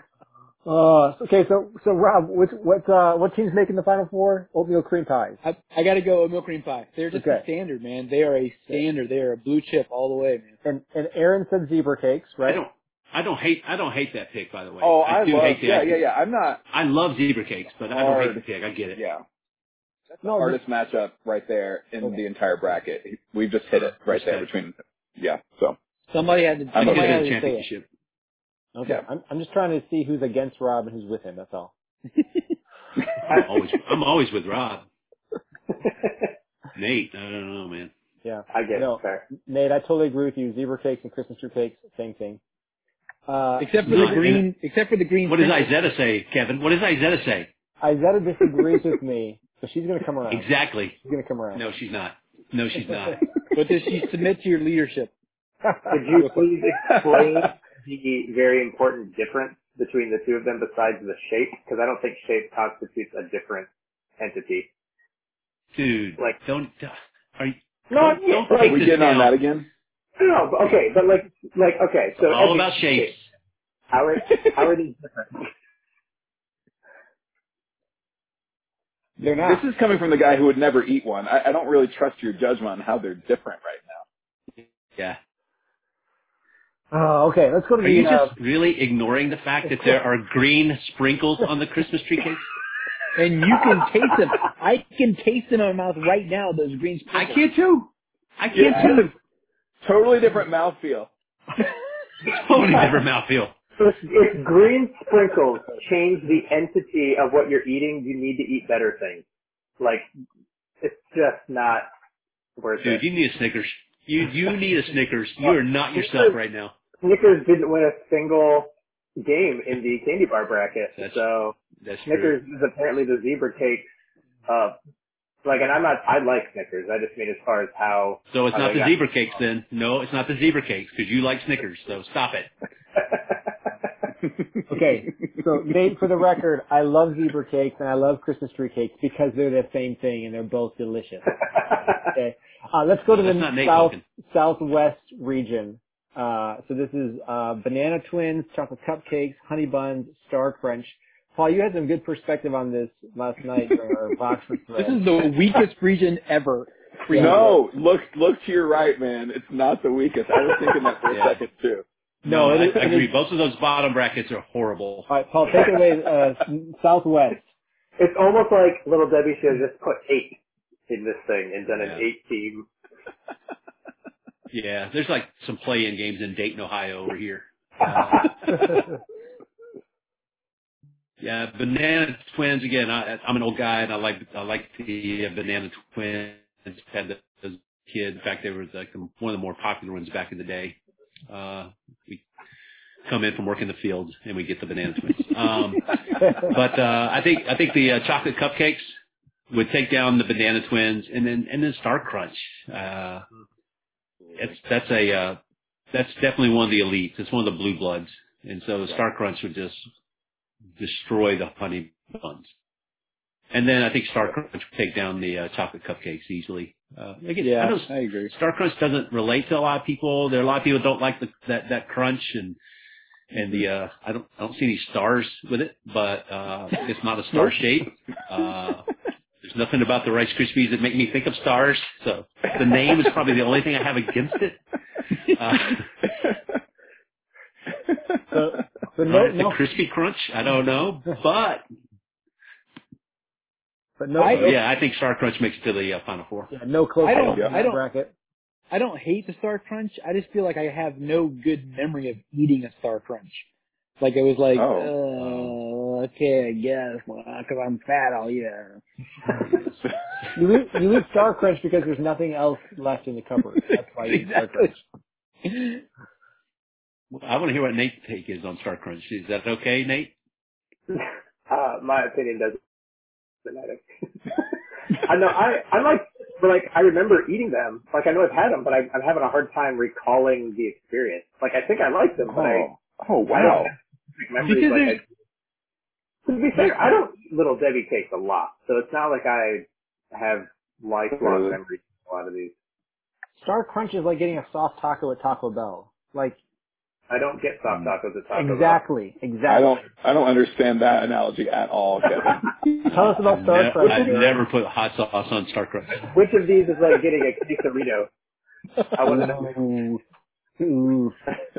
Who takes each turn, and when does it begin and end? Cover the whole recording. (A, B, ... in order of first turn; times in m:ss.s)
0:00.6-0:05.4 A
0:05.4-0:10.5 B
0:07.1-0:07.4 A
0:10.6-0:12.6 A
0:12.4-0:16.0 C
0:14.8-0:16.6 D
0:16.7-0:19.0 C
0:17.9-0:18.4 D
0:19.0-0:19.2 D
0:20.1-0:25.8 D
0:20.2-0:20.6 A
0:24.0-0:24.5 C
0:26.1-0:27.7 B
0:26.7-0:27.3 D
0:26.8-0:27.8 C
0:28.7-0:31.7 A
0:33.3-0:34.8 C
0:33.3-0:33.6 E
0:35.7-0:36.3 E
0:36.7-0:37.9 C
0:38.2-0:42.4 A
0:38.5-0:39.3 E
0:43.3-0:44.3 A
0:43.6-0:45.7 B
0:43.8-0:44.5 C
0:45.3-0:47.5 C
0:47.8-0:50.5 A
0:50.3-0:51.0 C
0:51.0-0:51.6 A
0:51.5-0:53.3 C
0:53.5-0:55.1 B
0:55.9-1:04.7 E
1:05.7-1:09.4 C
1:07.9-1:08.8 E
1:08.6-1:09.7 D
1:10.2-1:13.1 E
1:12.2-1:13.3 C
1:13.9-1:15.4 E
1:19.2-1:19.6 A
1:19.4-1:24.0 D
1:26.9-1:28.3 A
1:27.8-1:32.4 C
1:33.2-1:37.4 B
1:37.1-1:39.1 C
1:38.5-1:39.1 D
1:39.8-1:41.1 D
1:42.2-1:43.6 C
1:43.8-1:49.2 E
1:49.8-1:50.1 E
1:50.8-1:51.9 E
1:52.6-1:53.0 E
1:52.8-1:56.7 C
1:55.4-1:56.4 E
1:57.0-2:03.9 E
2:01.0-2:01.2 C
2:01.8-2:02.4 C
2:04.5-2:04.8 E
2:05.4-2:09.0 E
2:08.3-2:12.5 C
2:13.0-2:13.4 E
2:14.7-2:21.3 A
2:22.1-2:35.1 A
2:23.1-2:24.0 C
2:34.8-2:37.6 B
2:37.1-2:37.5 A
2:37.1-2:41.8 D
2:41.1-2:41.4 C
2:42.2-2:43.1 A
2:42.2-2:45.1 C
2:45.1-2:47.4 A
2:48.0-2:50.4 E
2:50.9-2:52.7 E
2:51.7-2:52.0 C
2:54.5-2:58.8 C
2:57.9-2:58.3 E
3:01.2-3:10.8 C
3:11.3-3:12.2 C
3:13.1-3:18.9 C
3:19.5-3:23.3 C
3:24.4-3:25.4 C
3:25.9-3:29.8 C
3:30.8-3:32.5 C
3:33.5-3:42.6 C
3:37.4-3:38.3 B
3:43.3-3:48.9 C
3:47.3-3:47.6 B
3:49.4-3:54.6 C
3:55.3-3:55.9 C
3:56.1-3:56.4 D
3:57.9-3:58.2 D
3:58.3-3:59.6 A
3:59.1-4:01.6 C
4:04.0-4:04.6 A
4:04.2-4:04.6 B
4:04.3-4:06.5 C
4:06.5-4:08.1 A
4:07.0-4:07.8 B
4:07.2-4:07.5 D
4:08.7-4:13.4 B
4:14.0-4:18.8 B
4:14.5-4:14.9 D
4:15.2-4:15.6 C
4:19.4-4:19.9 C
4:20.4-4:24.8 A
4:23.6-4:24.8 B
4:25.4-4:25.8 B
4:27.1-4:30.1 C
4:30.9-4:32.6 E
4:33.4-4:42.7 E
4:42.2-4:43.7 D
4:43.3-4:45.0 E
4:44.4-4:45.0 B
4:46.3-4:52.5 E
4:51.2-4:51.6 D
4:53.4-4:56.4 A
4:57.1-4:58.8 E
4:58.3-4:59.8 A
4:59.5-5:02.4 D
5:02.8-5:04.4 A
5:03.2-5:06.1 C
5:06.0-5:08.1 E
5:09.0-5:09.5 E
5:09.1-5:10.0 A
5:10.6-5:11.2 A